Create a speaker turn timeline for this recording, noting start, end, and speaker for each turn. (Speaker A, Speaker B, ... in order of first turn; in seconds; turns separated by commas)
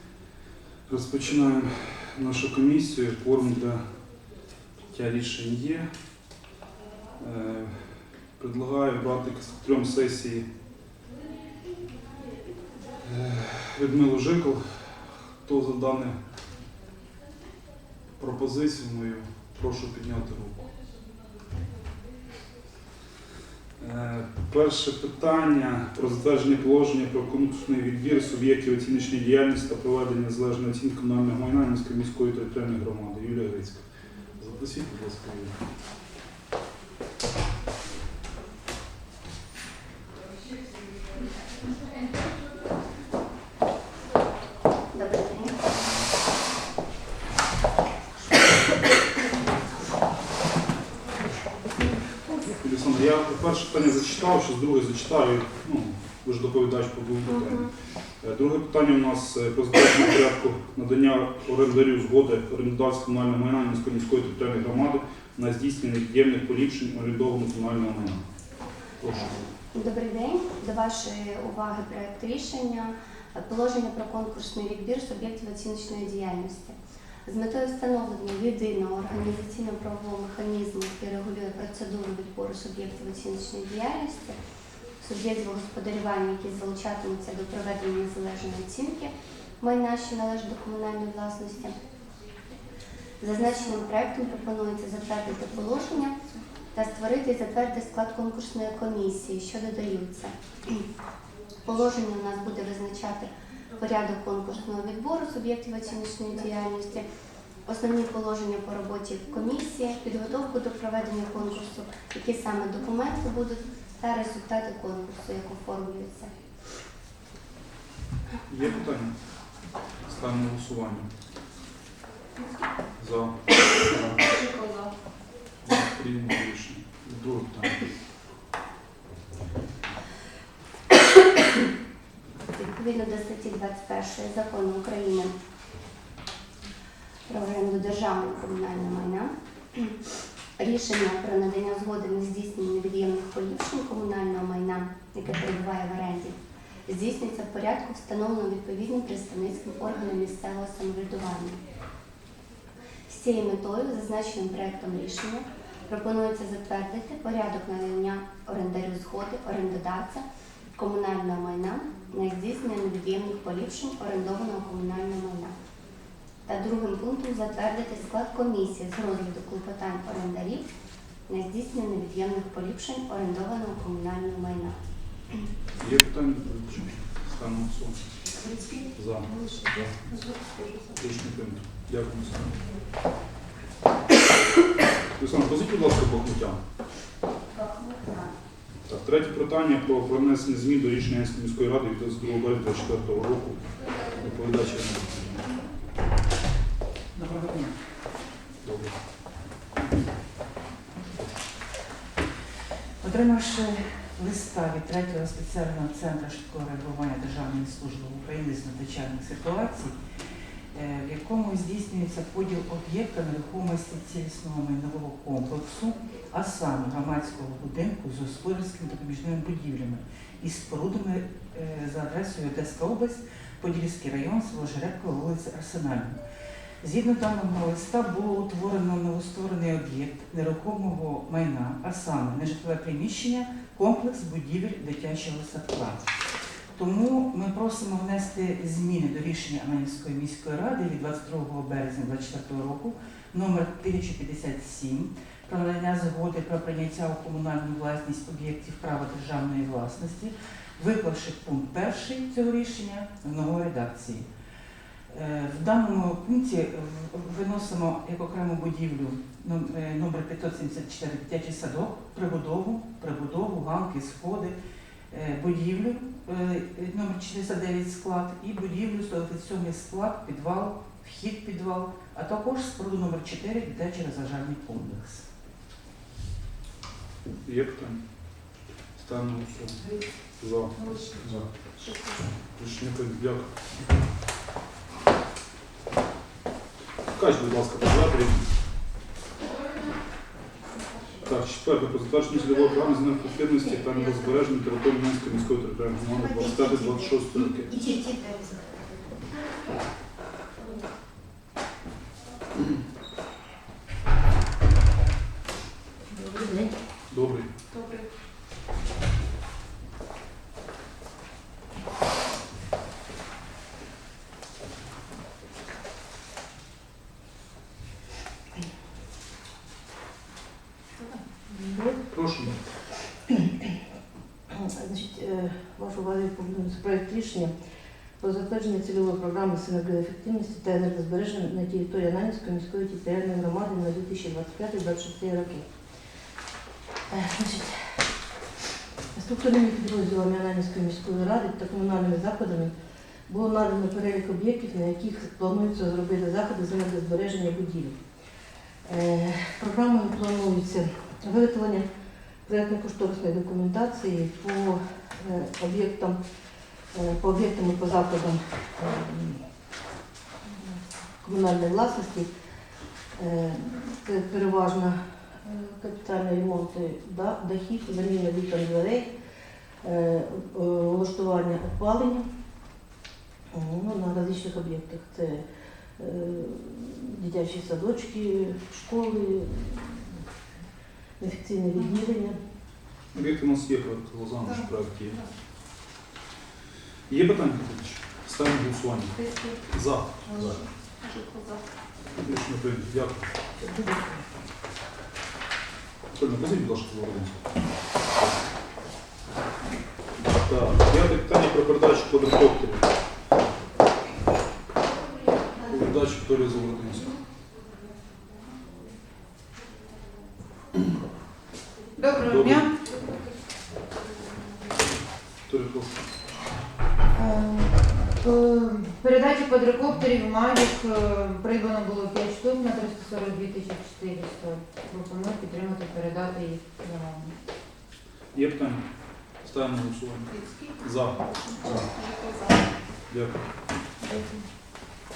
Speaker A: 0.9-3.8, Speaker A: 4.9-5.9, Speaker A: 7.2-7.7, Speaker A: 8.4-10.4, Speaker A: 13.0-16.2, Speaker A: 18.2-20.6, Speaker A: 23.8-33.8, Speaker A: 34.4-35.5, Speaker B: 44.9-45.6, Speaker A: 52.6-57.7, Speaker A: 58.2-68.2, Speaker A: 69.0-69.5, Speaker B: 69.7-84.4, Speaker B: 85.0-91.8, Speaker B: 93.2-96.2, Speaker B: 96.7-100.9, Speaker B: 101.7-107.1, Speaker B: 107.7-116.3, Speaker A: 118.5-119.1, Speaker A: 120.1-121.1, Speaker A: 123.0-124.3, Speaker C: 124.4-124.9, Speaker A: 125.7-127.8, Speaker B: 132.6-135.3, Speaker B: 137.3-140.0, Speaker B: 140.6-151.6, Speaker B: 153.1-165.6, Speaker B: 166.5-170.7, Speaker B: 171.3-174.8, Speaker A: 175.8-178.0, Speaker A: 178.9-179.3, Speaker C: 180.3-180.8, Speaker A: 180.9-182.5, Speaker A: 185.2-186.6, Speaker B: 187.5-188.3, Speaker A: 188.9-195.4, Speaker A: 197.2-197.7, Speaker A: 198.6-198.9, Speaker D: 203.0-210.0, Speaker D: 210.7-226.2, Speaker D: 226.8-236.1, Speaker D: 236.8-254.3, Speaker D: 255.1-264.6, Speaker D: 265.1-275.3, Speaker A: 277.4-278.0, Speaker A: 279.0-279.8, Speaker A: 280.4-281.4, Speaker A: 282.6-283.5, Speaker A: 287.1-288.5, Speaker A: 291.2-297.8, Speaker B: 297.9-298.4, Speaker E: 306.1-306.7, Speaker A: 307.1-307.5, Speaker E: 321.5-322.1, Speaker A: 322.1-322.6, Speaker E: 323.3-323.7, Speaker E: 324.5-327.5, Speaker E: 328.2-335.7, Speaker E: 337.1-338.0, Speaker E: 339.1-342.7, Speaker E: 343.3-348.0, Speaker E: 348.9-351.9, Speaker E: 352.4-356.2, Speaker E: 356.9-359.4, Speaker E: 361.2-362.3, Speaker E: 363.2-369.1, Speaker E: 369.8-372.3, Speaker E: 373.5-375.4, Speaker E: 376.0-380.2, Speaker E: 381.2-382.4, Speaker A: 383.1-385.2, Speaker A: 387.1-390.6, Speaker C: 390.4-391.6, Speaker A: 392.2-393.3, Speaker A: 396.1-397.4, Speaker A: 400.4-402.9, Speaker A: 405.6-407.1, Speaker C: 412.0-412.7, Speaker A: 412.2-412.7, Speaker A: 415.5-416.0, Speaker C: 417.1-427.4, Speaker A: 428.3-428.8, Speaker A: 429.4-431.2, Speaker C: 431.8-432.3, Speaker A: 433.1-433.3, Speaker C: 434.1-434.4